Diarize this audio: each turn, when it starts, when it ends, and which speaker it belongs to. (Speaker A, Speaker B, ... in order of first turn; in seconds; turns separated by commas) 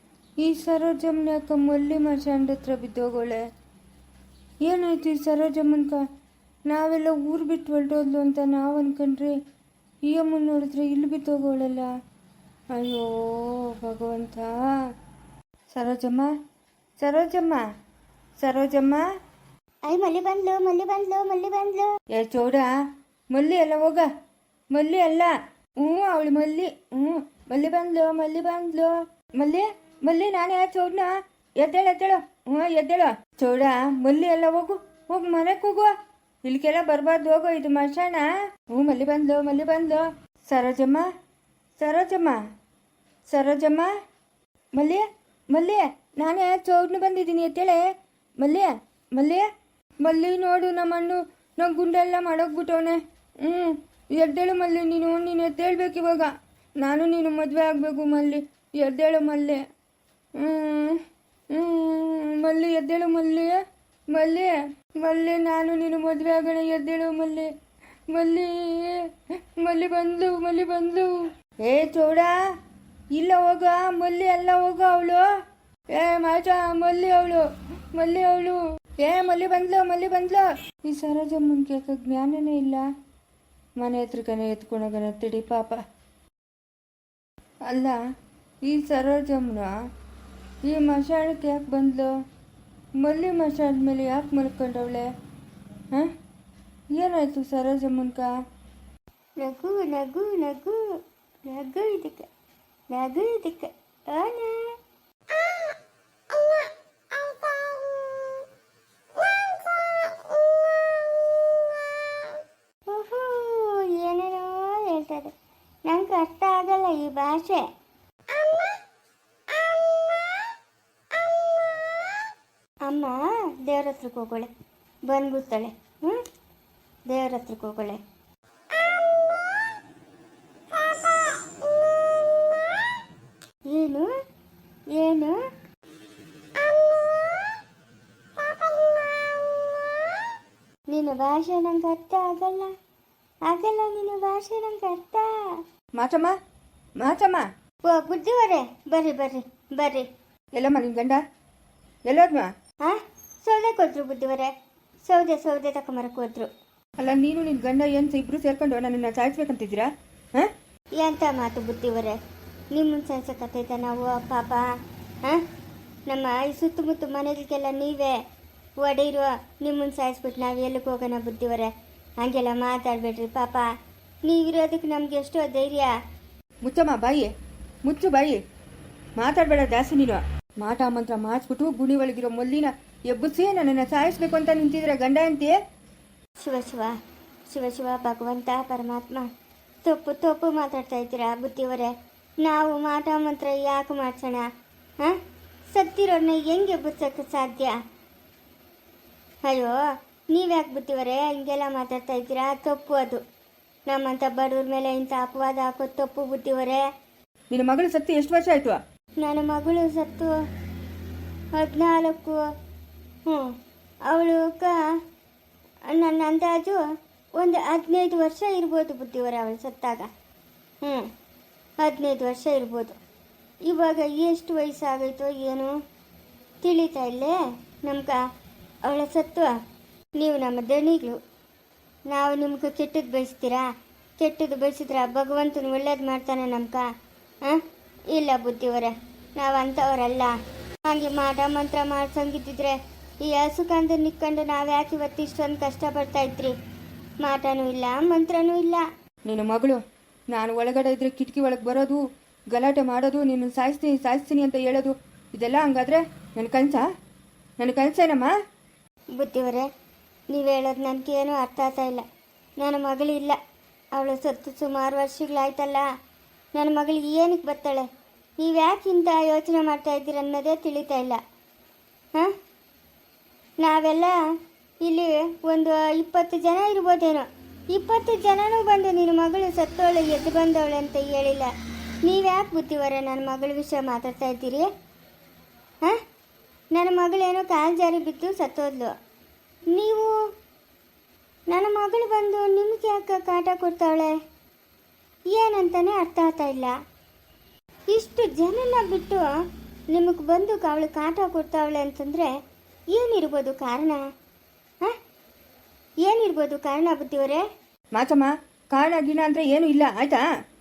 Speaker A: 0.4-3.4, Speaker A: 4.6-6.0, Speaker A: 6.7-9.4, Speaker A: 10.1-11.9, Speaker A: 12.7-14.6, Speaker A: 15.7-16.3, Speaker A: 17.0-17.6, Speaker A: 18.4-19.1, Speaker B: 19.9-21.9, Speaker A: 22.1-22.7, Speaker A: 23.3-24.1, Speaker A: 24.7-35.9, Speaker A: 36.4-41.1, Speaker A: 41.8-42.4, Speaker A: 43.3-43.9, Speaker A: 44.8-47.9, Speaker A: 48.4-49.5, Speaker A: 50.0-59.6, Speaker A: 60.4-67.5, Speaker A: 68.1-72.3, Speaker A: 73.1-75.2, Speaker A: 75.9-82.9, Speaker A: 83.8-85.8, Speaker A: 87.7-88.0, Speaker A: 88.6-89.7, Speaker A: 90.6-92.1, Speaker A: 93.0-95.1, Speaker A: 97.0-98.3, Speaker B: 99.4-100.8, Speaker B: 101.5-102.3, Speaker B: 102.9-104.8, Speaker B: 112.9-115.3, Speaker B: 115.9-117.6, Speaker B: 122.9-124.5, Speaker B: 125.1-126.2, Speaker B: 127.1-128.0, Speaker B: 133.7-134.1, Speaker B: 134.9-135.4, Speaker B: 140.9-142.7, Speaker B: 143.5-145.6, Speaker A: 146.0-146.3, Speaker A: 147.0-147.5, Speaker B: 147.9-150.1, Speaker A: 150.5-151.2, Speaker A: 152.1-152.5, Speaker B: 152.8-154.5, Speaker B: 155.1-156.5, Speaker A: 157.0-160.5, Speaker B: 161.0-162.2, Speaker B: 162.7-164.7, Speaker B: 166.1-168.2, Speaker B: 168.8-173.7, Speaker B: 174.2-175.9, Speaker A: 176.6-177.3, Speaker A: 177.8-178.4, Speaker A: 179.2-185.6, Speaker B: 186.4-186.9, Speaker B: 187.5-189.3, Speaker B: 189.8-191.9, Speaker B: 192.4-194.5, Speaker B: 195.7-197.8, Speaker B: 199.4-199.8, Speaker B: 200.3-203.2, Speaker B: 203.9-206.8, Speaker A: 207.5-208.8, Speaker B: 209.2-210.3, Speaker B: 211.6-212.4, Speaker B: 214.1-214.9, Speaker B: 215.9-216.8, Speaker B: 217.4-220.1, Speaker B: 220.8-221.1, Speaker B: 221.8-223.0, Speaker B: 223.7-225.7, Speaker B: 226.6-228.2, Speaker B: 228.9-229.5, Speaker B: 230.2-231.2, Speaker B: 232.1-233.7, Speaker B: 234.2-236.9, Speaker B: 237.4-240.3, Speaker B: 240.9-246.5, Speaker B: 247.2-248.9, Speaker A: 249.3-256.9, Speaker A: 257.6-258.3, Speaker B: 259.2-259.7, Speaker B: 260.3-262.0, Speaker B: 262.6-263.4, Speaker B: 263.9-265.9, Speaker B: 266.6-267.9, Speaker B: 268.4-271.2, Speaker B: 273.6-274.2, Speaker B: 274.8-281.5, Speaker B: 282.0-284.7, Speaker B: 286.7-288.9, Speaker B: 289.7-290.2, Speaker B: 291.5-294.1, Speaker B: 295.3-296.7, Speaker B: 297.9-299.3, Speaker B: 299.9-302.3, Speaker B: 302.9-304.0, Speaker B: 306.0-307.4, Speaker A: 307.9-310.3